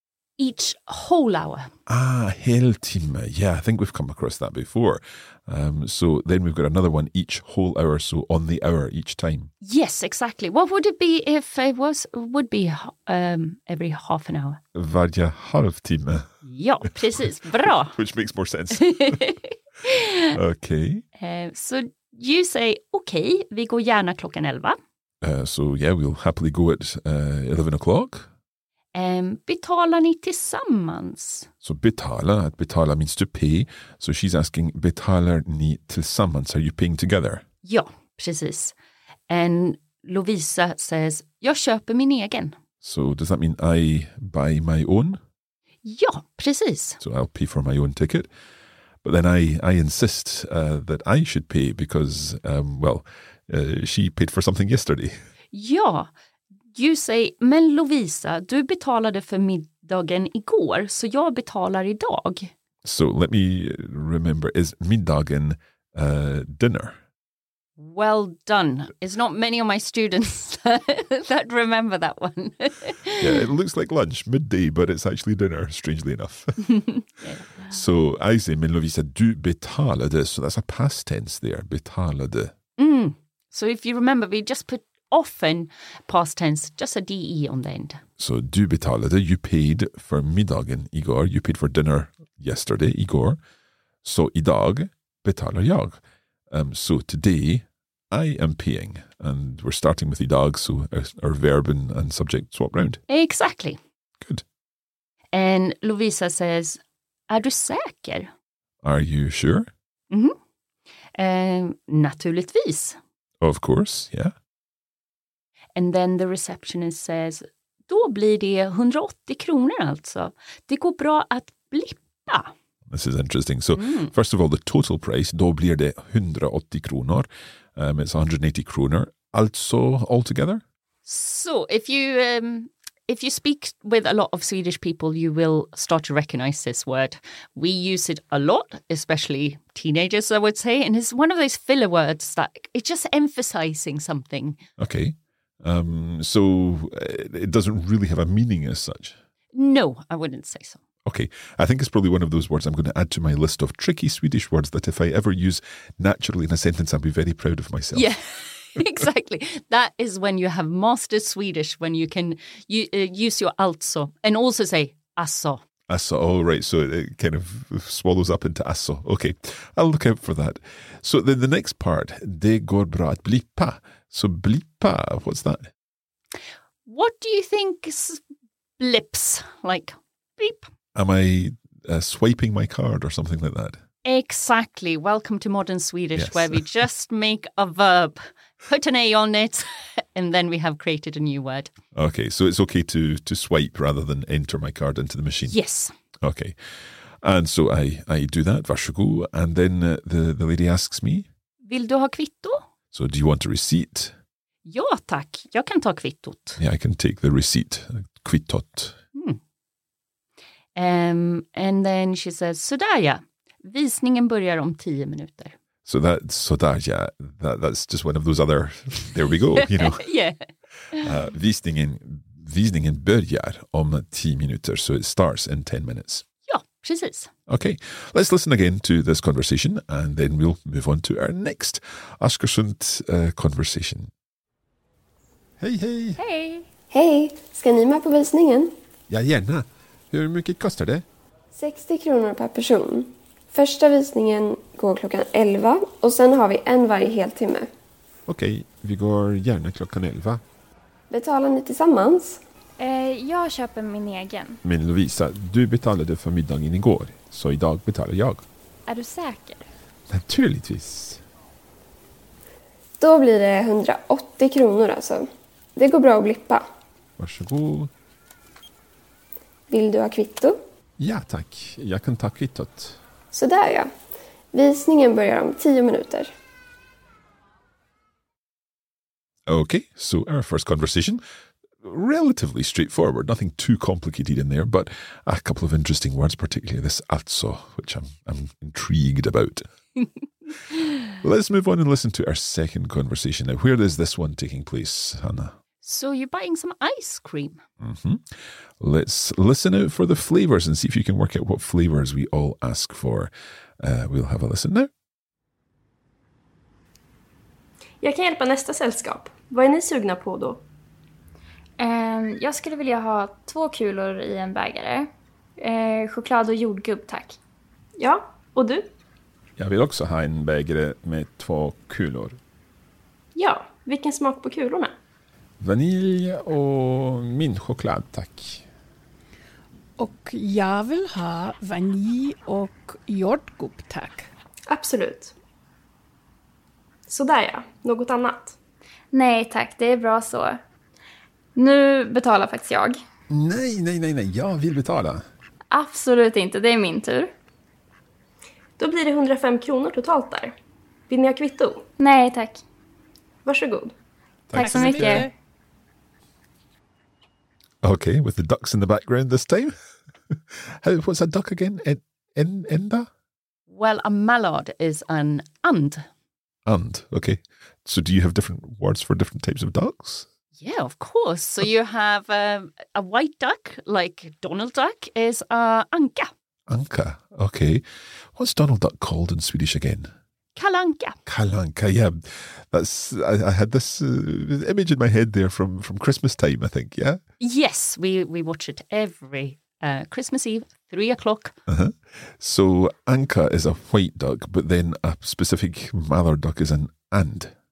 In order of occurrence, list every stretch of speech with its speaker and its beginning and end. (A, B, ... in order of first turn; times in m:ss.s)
0:00.4-0:01.7 A
0:01.9-0:09.5 B
0:09.6-0:14.6 A
0:14.7-0:16.3 B
0:16.4-0:18.0 A
0:16.8-0:19.2 B
0:18.7-0:20.4 A
0:20.3-0:21.0 B
0:21.2-0:24.8 A
0:25.2-0:28.3 B
0:28.9-0:31.5 A
0:31.6-0:37.4 B
0:37.6-0:38.7 A
0:39.3-0:42.6 A
0:42.8-0:45.2 B
0:45.8-0:47.0 A
0:47.0-0:48.3 B
0:49.0-0:55.1 B
0:55.5-0:56.1 A
0:56.7-1:02.5 A
1:02.8-1:07.0 B
1:07.8-1:13.4 A
1:13.2-1:16.7 B
1:16.8-1:17.8 A
1:17.7-1:22.5 B
1:22.8-1:28.0 A
1:28.2-1:33.4 B
1:34.0-1:36.0 B
1:36.5-1:43.0 B
1:43.1-1:43.8 A
1:45.3-1:48.3 A
1:48.8-1:49.7 B
1:50.1-1:50.4 A
1:51.1-1:53.0 A
1:53.4-1:54.3 B
1:55.8-2:02.5 A
2:02.9-2:10.6 B
2:03.7-2:04.1 A
2:11.0-2:24.6 A
2:24.8-2:29.2 B
2:29.5-2:30.8 A
2:31.0-2:38.1 B
2:37.9-2:45.6 A
2:45.9-2:55.7 B
2:56.8-2:58.2 A
2:58.8-3:00.7 A
3:00.9-3:03.8 B
3:04.0-3:11.7 A
3:06.2-3:06.6 B
3:11.9-3:15.6 B
3:15.5-3:15.9 A
3:16.2-3:16.6 B
3:17.2-3:21.3 B
3:21.6-3:22.6 A
3:22.9-3:24.1 B
3:24.6-3:26.6 A
3:26.6-3:29.0 B
3:30.7-3:35.6 A
3:35.8-3:40.0 B
3:39.5-3:41.1 A
3:41.0-3:46.2 B
3:46.5-3:47.3 A
3:47.5-3:54.1 B
3:55.6-3:56.2 B
3:56.2-3:56.6 C
3:56.9-3:58.7 D
3:59.1-4:01.0 B
4:01.5-4:07.7 D
4:08.3-4:10.4 B
4:11.1-4:12.4 D
4:12.8-4:14.6 C
4:14.6-4:18.4 B
4:18.9-4:19.6 C
4:20.1-4:21.2 B
4:23.0-4:26.6 D
4:27.2-4:27.9 B
4:29.7-4:30.6 D
4:31.0-4:33.0 B
4:33.3-4:33.9 D
4:34.5-4:36.3 D
4:39.5-4:41.2 B
4:41.8-4:49.6 B
4:51.2-4:55.6 B
4:55.8-4:57.6 A
4:57.8-5:04.9 B
5:08.0-5:10.6 E
5:11.8-5:17.4 C
5:18.0-5:18.9 E
5:19.6-5:22.4 B
5:23.3-5:25.0 E
5:25.6-5:28.6 B
5:30.0-5:34.3 F
5:34.7-5:35.3 E
5:37.1-5:38.6 E
5:39.1-5:40.6 C
5:41.6-5:43.0 C
5:43.3-5:45.2 B
5:45.7-5:47.3 C
5:48.8-5:50.5 E
5:51.1-5:51.8 E
5:52.0-5:52.6 C
5:53.4-5:53.9 E
5:54.5-5:55.3 B
5:54.6-5:55.3 C
5:54.6-5:55.3 F
5:57.8-5:59.7 B
6:00.3-6:03.1 B
6:03.7-6:06.0 A
6:06.6-6:10.3 B
6:10.6-6:16.3 A
6:16.7-6:17.8 B
6:18.3-6:20.1 B
6:20.6-6:21.2 A
6:21.2-6:27.2 B
6:27.4-6:31.6 A
6:31.7-6:37.5 B